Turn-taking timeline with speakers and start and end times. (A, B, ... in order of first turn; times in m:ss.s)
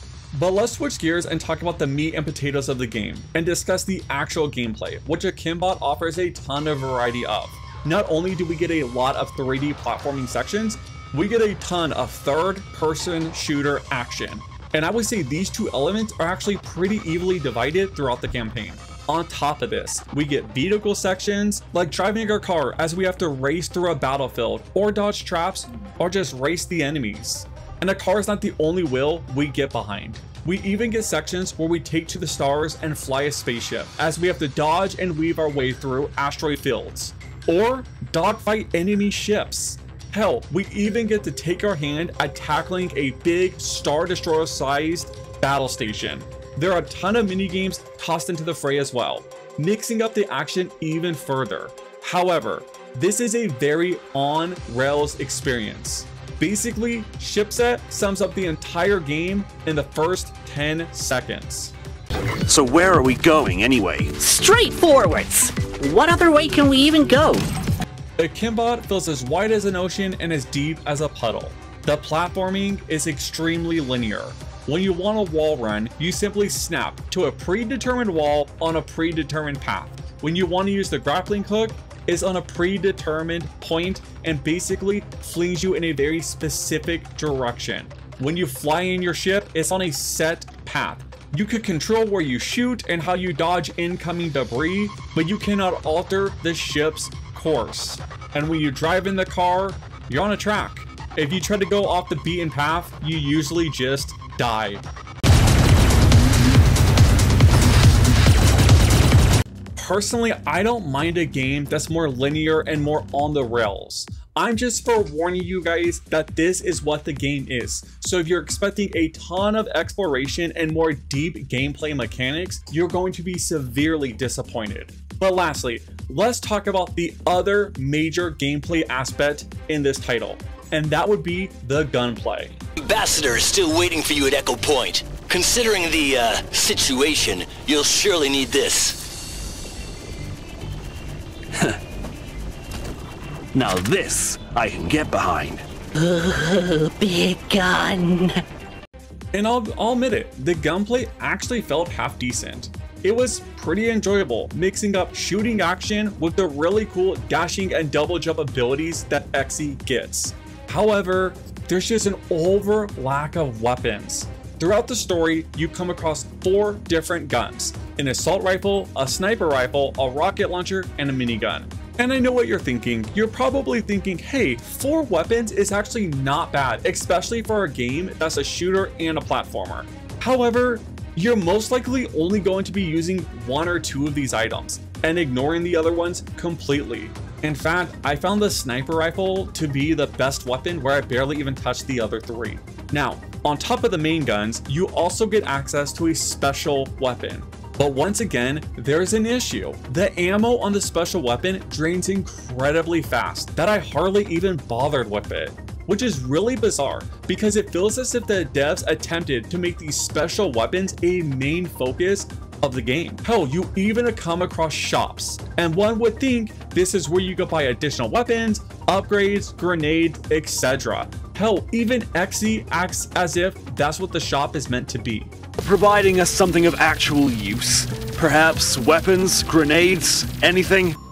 0:00.3-1:01.7 A
1:02.5-1:04.2 B
1:04.2-1:07.4 C
1:08.2-1:44.8 A
1:49.8-2:12.6 A
2:12.8-2:19.0 D
2:21.5-2:21.8 B
2:23.5-2:25.6 B
2:26.0-2:28.4 C
2:29.3-3:45.3 A
3:45.6-3:51.0 B